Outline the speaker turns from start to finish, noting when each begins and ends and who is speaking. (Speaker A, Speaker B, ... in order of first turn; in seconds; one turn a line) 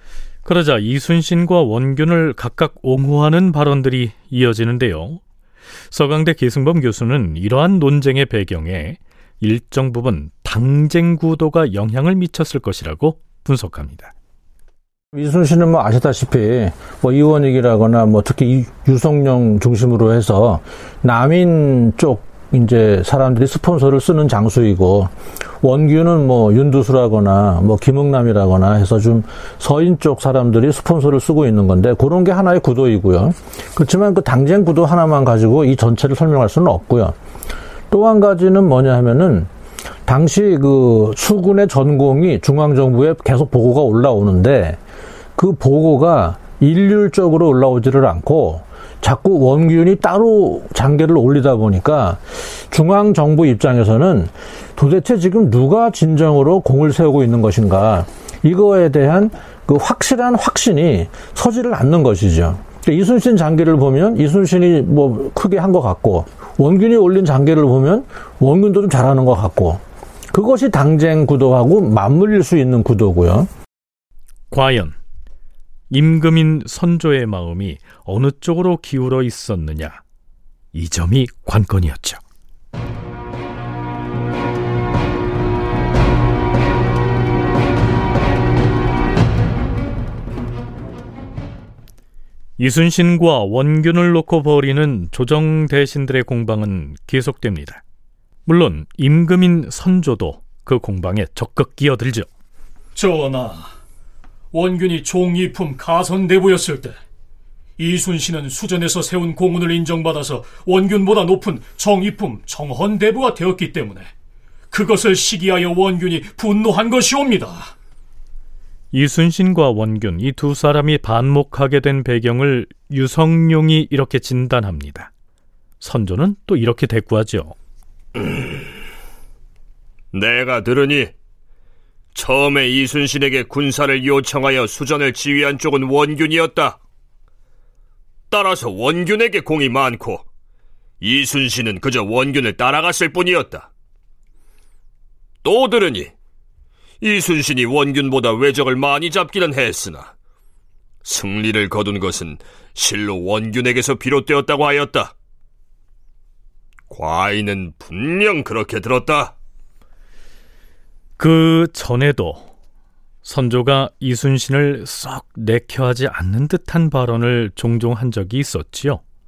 Speaker A: 0.4-5.2
Speaker A: 5.9-14.1
Speaker B: 15.1-37.1
Speaker B: 37.9-39.5
Speaker B: 40.0-44.8
Speaker B: 45.4-69.8
Speaker B: 70.3-73.5
Speaker A: 74.5-75.0
Speaker A: 75.9-80.0
Speaker A: 80.7-82.2
Speaker A: 92.6-97.8
Speaker A: 98.5-102.3
Speaker C: 102.9-103.7
Speaker C: 104.5-107.0
Speaker C: 107.8-114.1
Speaker C: 114.7-117.7
Speaker A: 118.9-125.1
Speaker A: 125.8-127.5
Speaker D: 130.1-131.1
Speaker D: 132.1-136.8
Speaker D: 138.3-140.2
Speaker D: 141.0-143.7
Speaker D: 145.4-146.1
Speaker D: 147.0-150.1
Speaker D: 151.0-155.1
Speaker D: 156.9-159.3
Speaker A: 161.2-162.5
Speaker A: 163.2-169.0